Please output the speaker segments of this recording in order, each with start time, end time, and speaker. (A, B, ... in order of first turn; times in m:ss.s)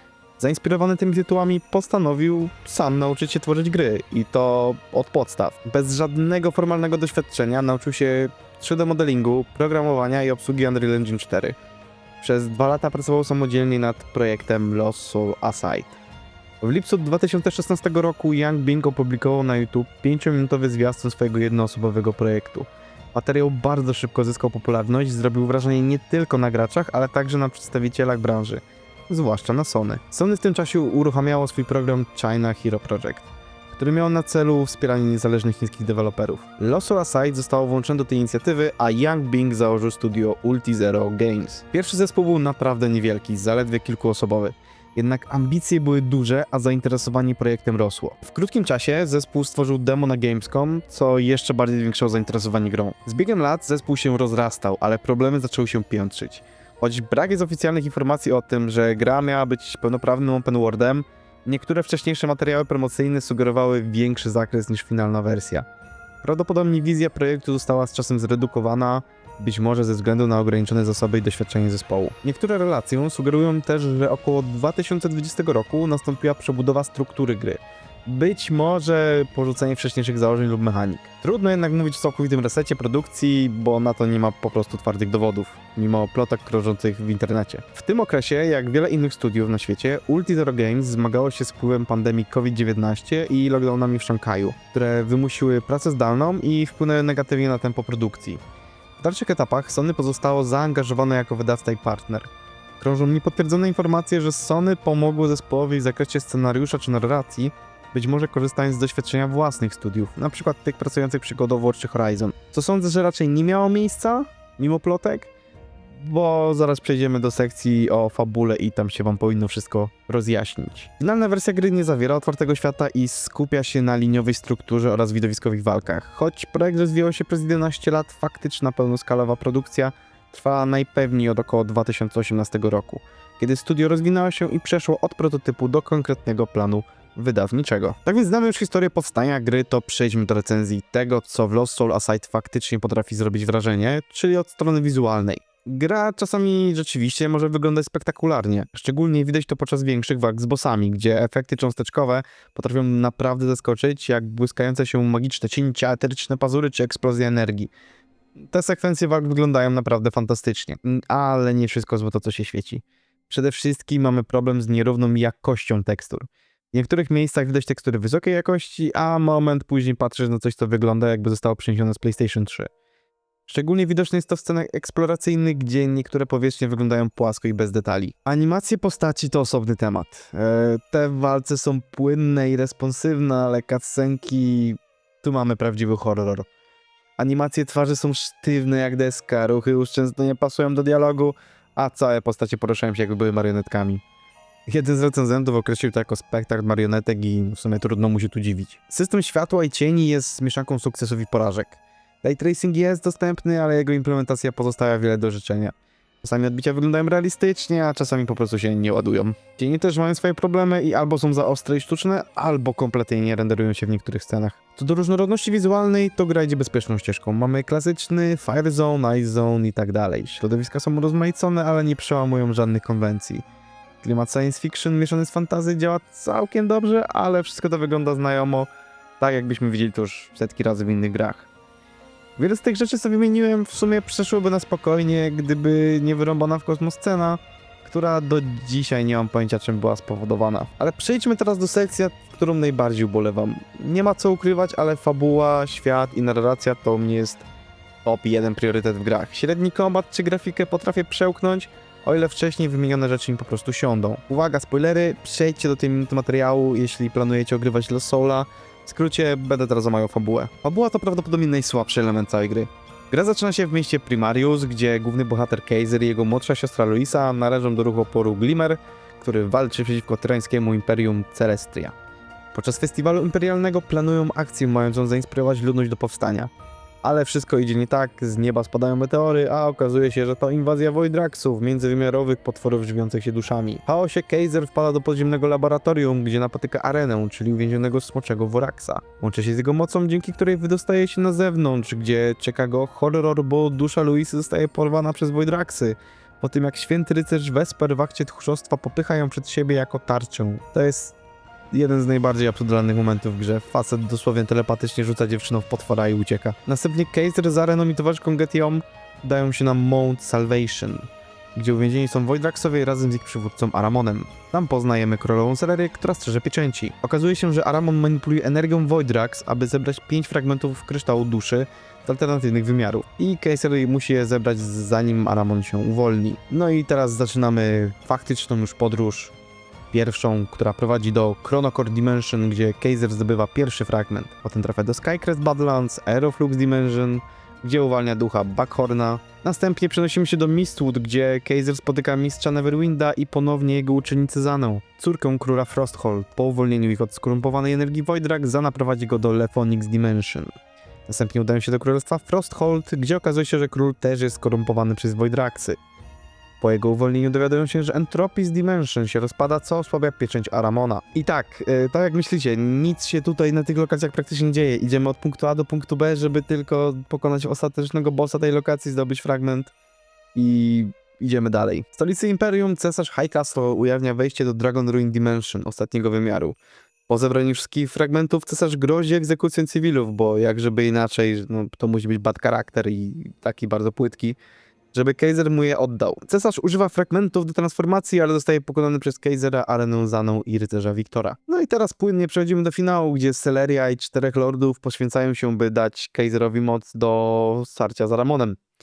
0:00.4-0:11.6 A
0:12.2-0:16.0 A
0:16.6-1:05.6 A
1:06.2-1:38.4 A
1:39.0-1:55.3 A
1:55.8-2:37.7 A
2:38.5-2:52.7 A
2:53.5-3:06.5 A
3:07.2-3:14.0 A
3:14.7-3:43.4 A
3:44.0-3:48.7 A
3:49.2-3:51.5 A
3:52.4-4:07.4 A
4:08.0-4:31.9 A
4:32.5-4:36.5 A
4:37.0-5:01.2 A
5:01.7-5:29.3 A
5:29.9-5:50.5 A
5:51.1-5:55.8 A
5:56.6-6:09.7 A
6:10.3-6:16.6 A
6:17.1-6:24.4 A
6:24.9-6:38.6 A